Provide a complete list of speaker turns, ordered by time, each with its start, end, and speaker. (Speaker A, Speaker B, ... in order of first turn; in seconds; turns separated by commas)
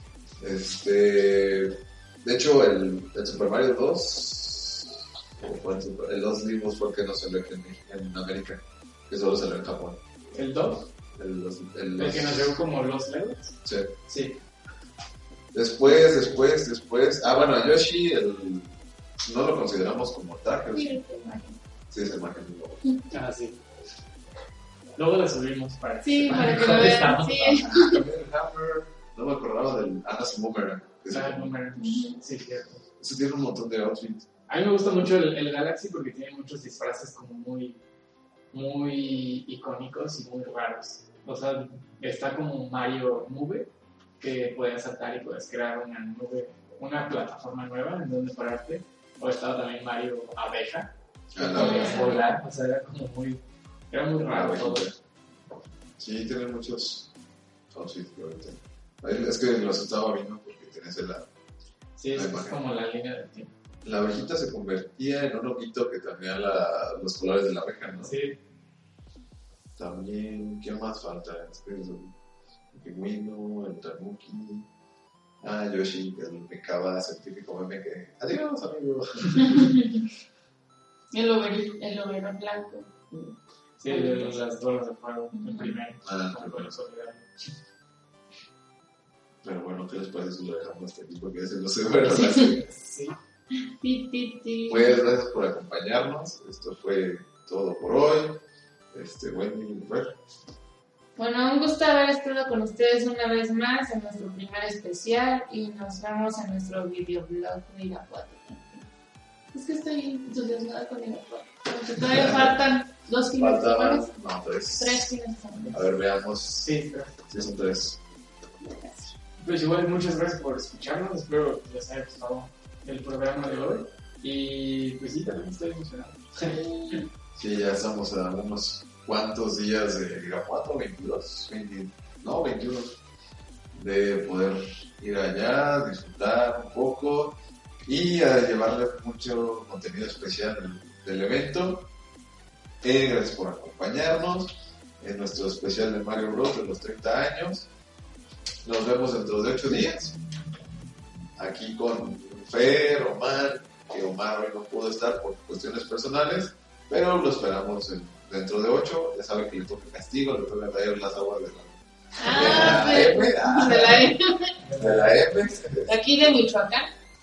Speaker A: 0.4-10.0, Speaker B: 10.3-10.9, Speaker A: 11.1-12.6, Speaker B: 11.9-14.4, Speaker A: 13.6-13.9, Speaker A: 15.5-21.0, Speaker C: 20.7-21.6, Speaker A: 21.9-22.9, Speaker C: 22.8-23.1, Speaker B: 23.1-23.6, Speaker B: 25.0-27.6, Speaker C: 26.0-28.0, Speaker A: 26.3-26.9, Speaker A: 27.5-31.5, Speaker B: 31.1-32.8, Speaker C: 31.8-32.2, Speaker A: 33.0-34.2, Speaker B: 34.5-37.8, Speaker B: 38.5-54.9, Speaker A: 51.3-52.1, Speaker C: 51.6-52.2, Speaker A: 54.2-54.9, Speaker A: 56.0-57.1, Speaker A: 57.7-61.3, Speaker B: 62.0-63.5, Speaker A: 62.1-62.6, Speaker A: 63.8-68.2, Speaker B: 68.0-68.4, Speaker A: 69.8-72.1, Speaker A: 72.7-74.7, Speaker A: 75.4-79.8, Speaker C: 79.5-80.0, Speaker C: 81.1-83.3, Speaker B: 83.8-87.3, Speaker C: 83.8-84.4, Speaker C: 85.3-85.8, Speaker A: 86.0-86.8, Speaker A: 89.4-92.7, Speaker C: 92.1-92.5, Speaker B: 92.6-93.2, Speaker C: 93.6-95.0, Speaker A: 94.7-100.2, Speaker C: 101.2-108.8, Speaker C: 109.5-114.2, Speaker A: 112.0-112.6, Speaker A: 113.3-115.0, Speaker C: 114.7-115.8, Speaker A: 115.7-116.8, Speaker B: 116.6-117.2, Speaker A: 117.3-118.0, Speaker C: 118.6-119.1, Speaker B: 119.4-126.6, Speaker C: 126.4-127.0, Speaker A: 127.3-133.0, Speaker A: 133.7-141.9, Speaker A: 142.8-147.7, Speaker A: 148.6-150.2, Speaker A: 151.4-164.1, Speaker C: 162.2-164.7, Speaker A: 164.7-166.0, Speaker C: 165.8-166.9